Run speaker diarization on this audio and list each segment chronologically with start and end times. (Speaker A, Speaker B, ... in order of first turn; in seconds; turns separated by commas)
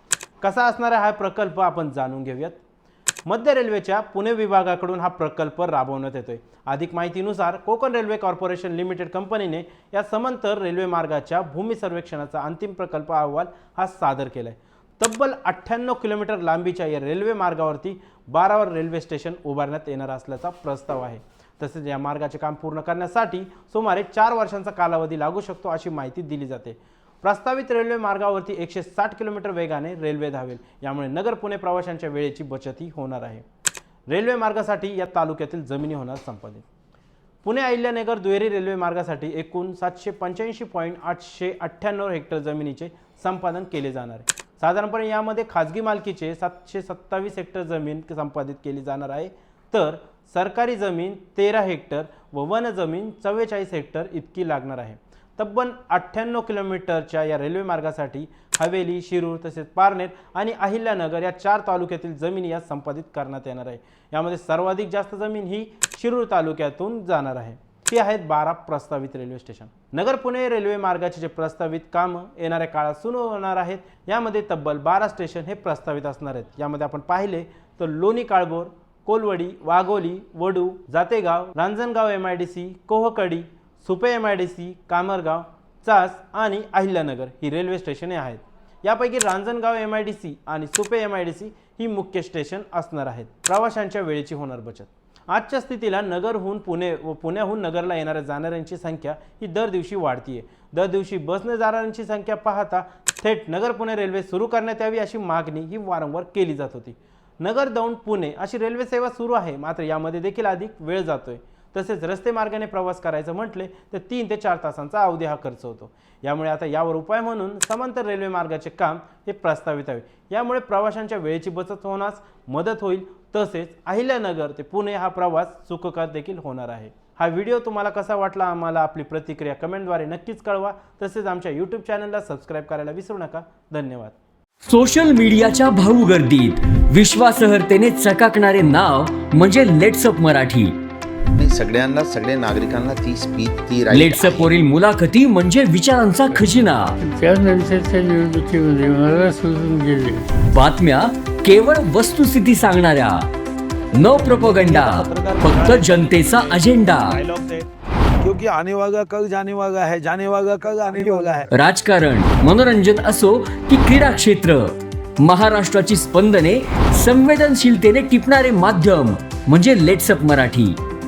Speaker A: 0.4-2.6, Speaker A: 3.3-33.4, Speaker A: 34.1-36.6, Speaker A: 37.4-134.2, Speaker B: 134.7-140.8, Speaker C: 141.3-144.5, Speaker B: 143.9-147.0, Speaker D: 147.1-150.2, Speaker B: 150.5-153.2, Speaker B: 153.9-157.2, Speaker E: 154.0-157.7, Speaker E: 158.2-161.5, Speaker B: 161.5-164.7, Speaker B: 165.2-170.8